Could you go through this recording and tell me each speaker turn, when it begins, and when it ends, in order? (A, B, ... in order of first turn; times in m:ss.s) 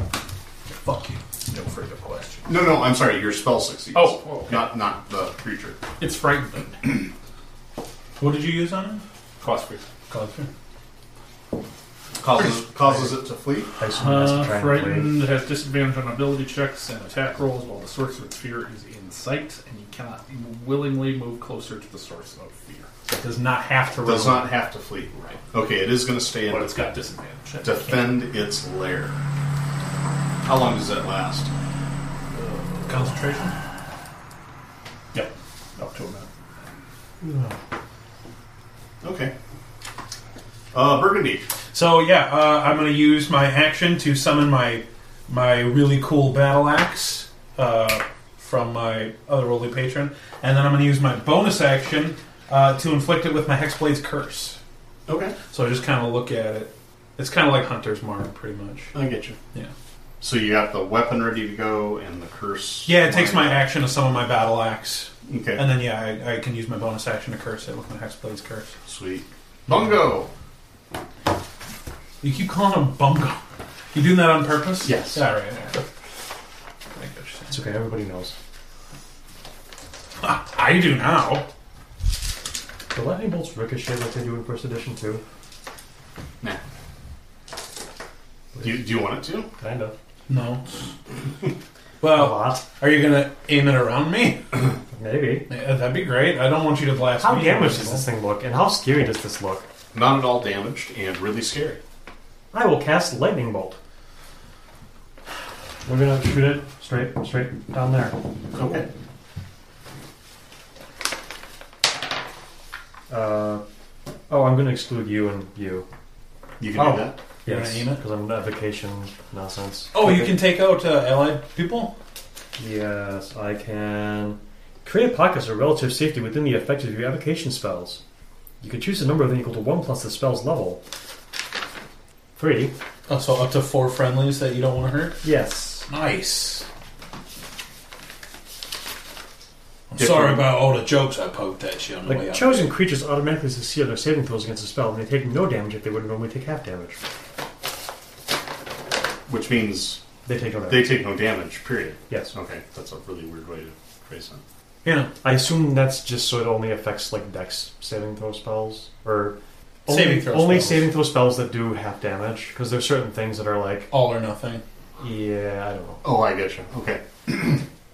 0:00.7-0:01.2 A
0:01.5-0:02.5 B
0:02.5-0:05.8 C
0:03.9-0:04.7 B
0:06.0-0:07.1 B
0:08.2-0:09.0 A
0:09.4-0:09.8 B
0:10.1-0:10.5 A
0:12.2-0:13.7 C
0:12.4-0:13.1 A
0:13.8-0:15.2 D
0:13.9-0:22.9 B
0:23.1-0:24.5 A
0:24.0-0:26.9 C
0:26.4-0:28.2 B
0:27.6-0:29.2 C
0:30.4-0:31.5 C
0:32.3-0:33.1 B
0:32.9-0:33.6 A
0:35.1-0:36.3 B
0:37.2-0:37.6 D
0:39.0-0:39.3 C
0:40.7-0:41.5 C
0:41.7-0:54.6 A
0:55.1-0:55.4 C
0:55.5-0:58.9 A
0:58.9-0:59.4 C
1:00.2-1:03.6 C
1:02.8-1:08.7 A
1:05.2-1:05.7 C
1:08.9-1:10.3 C
1:12.2-1:13.4 A
1:13.9-1:15.8 A
1:14.8-1:15.2 C
1:16.9-1:17.5 A
1:17.5-1:18.3 D
1:20.2-1:21.4 A
1:22.9-1:25.2 D
1:28.5-1:28.8 D
1:28.6-1:29.5 C
1:29.6-1:29.9 D
1:30.3-1:30.6 A
1:32.0-1:34.4 A
1:32.0-1:32.6 D
1:34.9-1:35.5 D
1:35.5-1:38.0 A
1:37.2-1:39.7 D
1:39.9-1:41.8 C
1:42.5-1:43.8 D
1:45.8-1:48.2 D
1:48.5-1:48.9 C
1:53.1-1:53.6 D
1:54.3-1:55.8 D
1:56.6-1:57.2 C
1:56.7-1:58.0 A
1:57.4-2:00.4 D
1:59.9-2:01.9 A
2:02.6-2:08.0 D
2:08.6-2:10.8 D
2:12.4-2:12.7 D
2:13.1-2:15.2 A
2:15.2-2:15.9 D
2:15.9-2:16.6 A
2:19.9-2:22.7 A
2:20.0-2:20.5 D
2:22.0-2:27.0 D
2:29.3-2:30.0 C
2:30.2-2:31.0 D
2:30.7-2:34.4 C
2:32.1-2:32.3 D
2:34.8-2:35.1 A
2:35.2-2:43.9 D
2:39.8-2:40.9 A
2:43.9-2:44.6 A
2:45.0-2:46.0 D
2:46.0-2:47.6 C